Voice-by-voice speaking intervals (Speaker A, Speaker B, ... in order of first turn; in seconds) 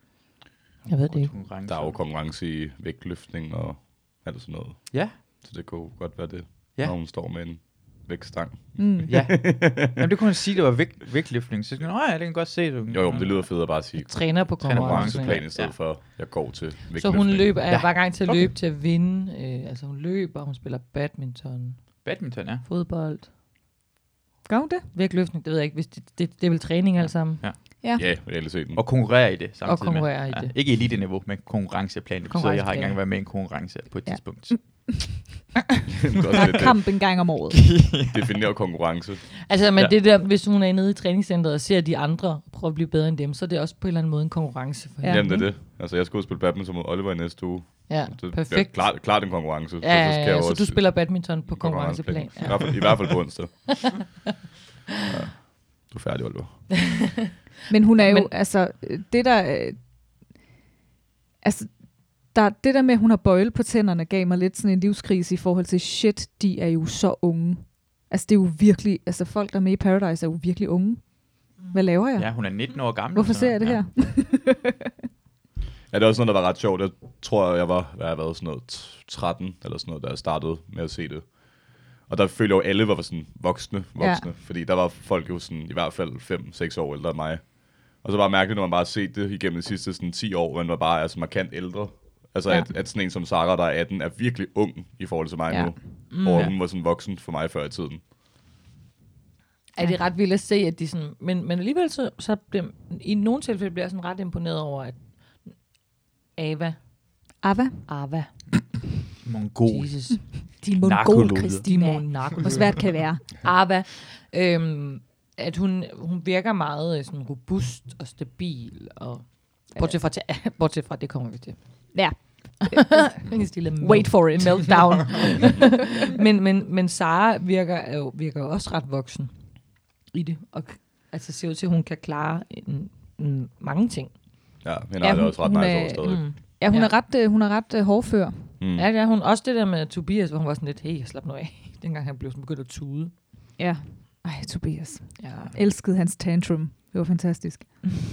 Speaker A: 0.9-1.3, 14.0-15.4, 16.9-22.1, 22.6-23.3, 24.9-27.4, 29.6-30.5, 32.3-33.0, 39.5-45.4, 47.9-53.3, 58.0-58.3, 99.7-105.6, 106.3-106.9, 107.9-108.3, 109.7-110.2, 111.6-129.3, 130.1-134.1, 136.0-136.9, 138.7-143.1, 145.2-145.5
Speaker B: 1.0-2.0, 4.9-5.2, 9.1-13.8, 14.6-15.8, 17.7-18.4, 22.0-22.6, 27.0-34.6, 36.4-36.7, 37.5-38.3, 72.2-73.8, 109.2-111.7
Speaker C: 1.6-10.1, 12.9-17.7, 27.9-28.8, 36.1-36.8, 38.0-39.2, 45.0-54.1, 55.0-57.0, 75.9-98.0, 134.6-136.3, 138.6-138.9
Speaker D: 8.8-9.1, 24.4-24.9, 27.8-28.1, 34.0-35.5, 36.3-37.6, 45.0-45.5, 57.7-59.8, 61.4-74.7, 84.0-84.3, 95.5-96.5, 107.4-107.9, 110.3-113.2, 121.9-123.2, 123.8-125.1, 135.0-138.5, 143.6-147.9